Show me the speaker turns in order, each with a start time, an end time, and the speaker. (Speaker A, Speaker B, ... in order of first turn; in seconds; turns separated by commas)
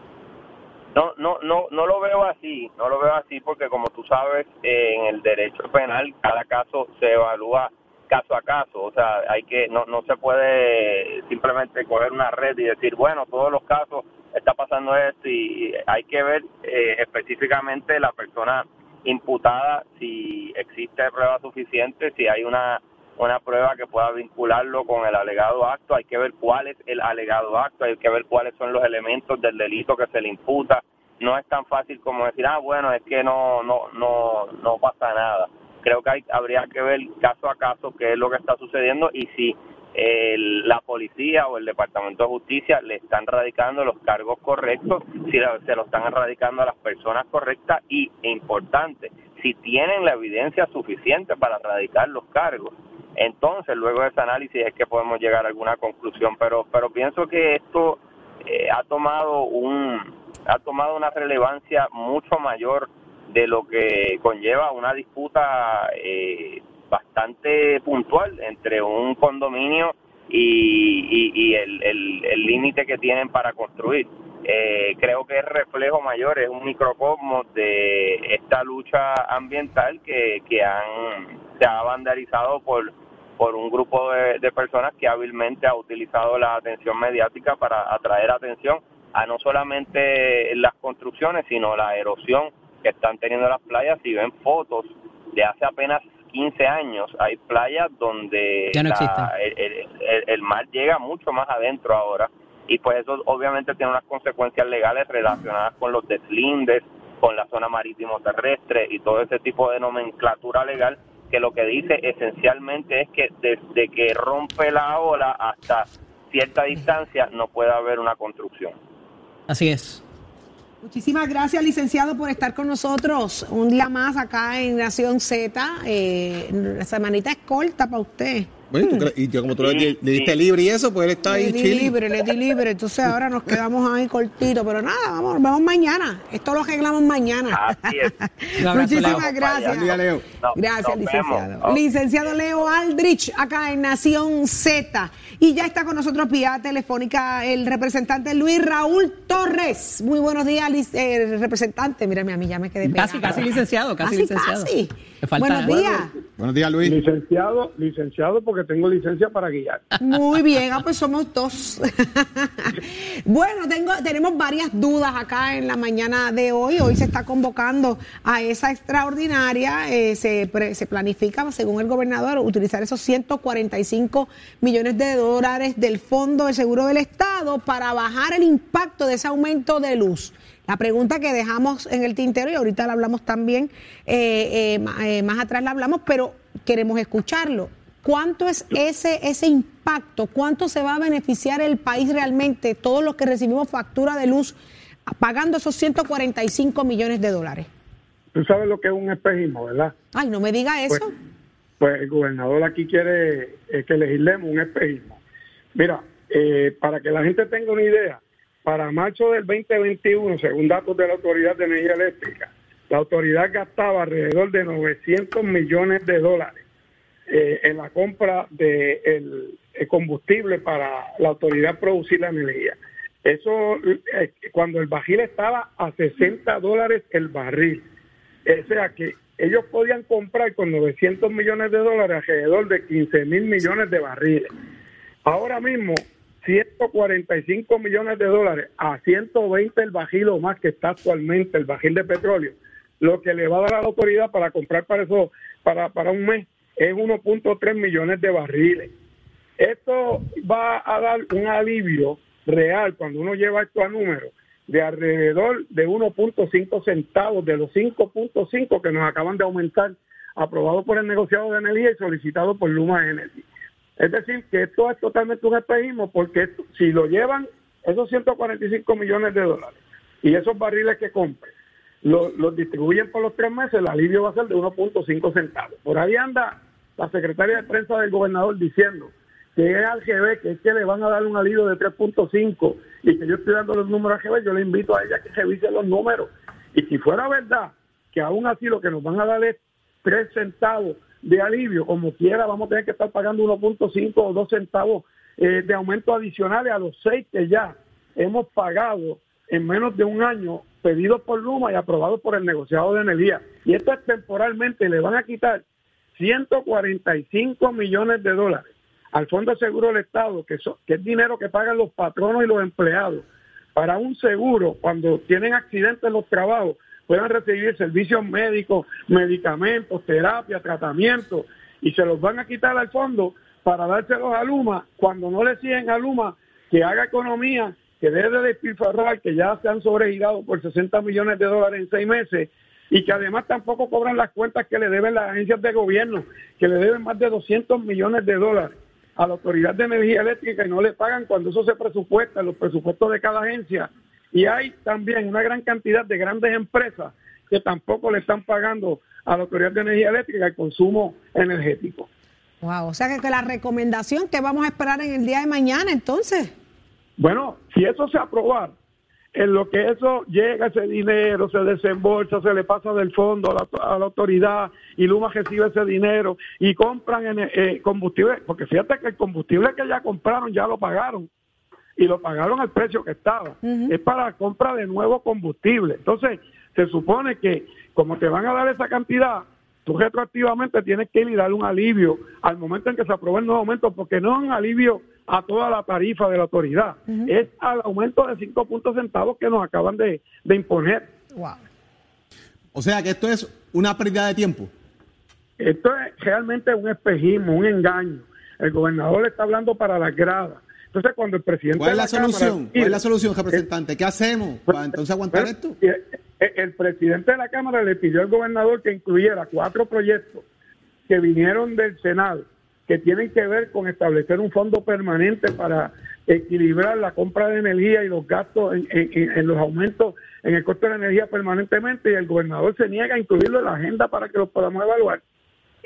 Speaker A: 0.9-118.8, Speaker B: 98.7-99.3, Speaker B: 119.5-120.0, Speaker C: 120.8-129.1, Speaker D: 128.7-132.1, Speaker A: 129.6-130.3, Speaker C: 131.3-139.9, Speaker A: 137.5-138.1, Speaker B: 138.6-139.2, Speaker A: 139.0-142.3, Speaker D: 139.7-140.2, Speaker C: 140.6-153.5, Speaker B: 152.9-155.9, Speaker C: 154.0-156.1, Speaker D: 156.4-157.0, Speaker E: 156.8-159.9, Speaker C: 160.0-194.6, Speaker C: 195.1-197.7, Speaker E: 198.3-199.9, Speaker C: 200.1-201.1, Speaker E: 201.8-205.2, Speaker E: 205.8-216.6, Speaker E: 217.3-227.8, Speaker E: 228.5-234.5, Speaker E: 235.2-248.9, Speaker E: 249.6-263.5, Speaker E: 264.0-271.5, Speaker E: 272.0-305.6, Speaker E: 306.2-352.1, Speaker C: 352.6-356.5, Speaker E: 357.2-358.8, Speaker E: 359.3-371.3, Speaker E: 372.0-391.1, Speaker C: 373.6-373.9, Speaker C: 391.4-391.6, Speaker D: 392.7-394.7, Speaker E: 395.6-403.0, Speaker D: 401.8-405.8, Speaker E: 404.7-410.4, Speaker E: 411.1-425.2